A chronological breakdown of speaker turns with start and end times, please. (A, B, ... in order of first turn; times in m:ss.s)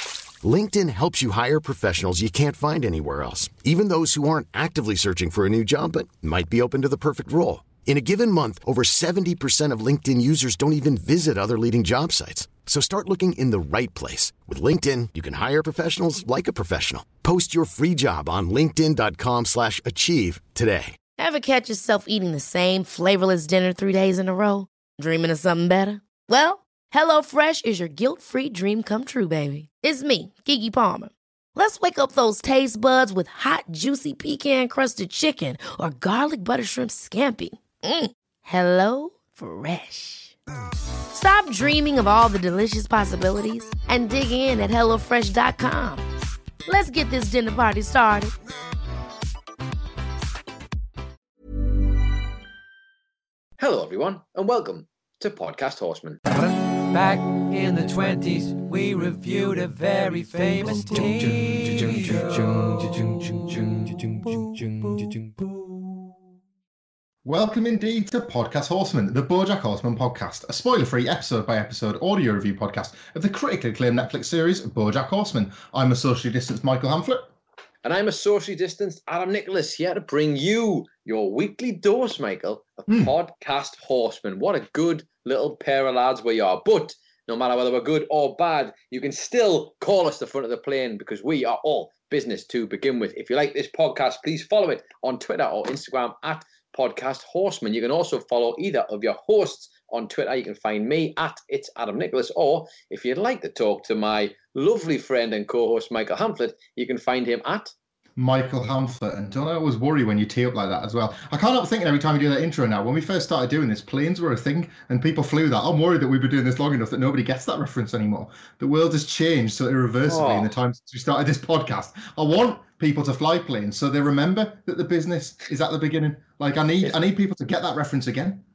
0:00.4-0:21.0 A
0:21.2-0:40.4 B
0:41.1-0:46.0 B
0:46.6-0:48.3 B
0:53.6-0:56.4 C
0:56.4-1:00.6 D
0:56.9-1:04.6 C
1:01.5-1:02.2 D
1:07.2-1:17.3 E
1:17.8-1:47.7 C
1:48.2-2:08.4 E
2:00.1-2:00.5 C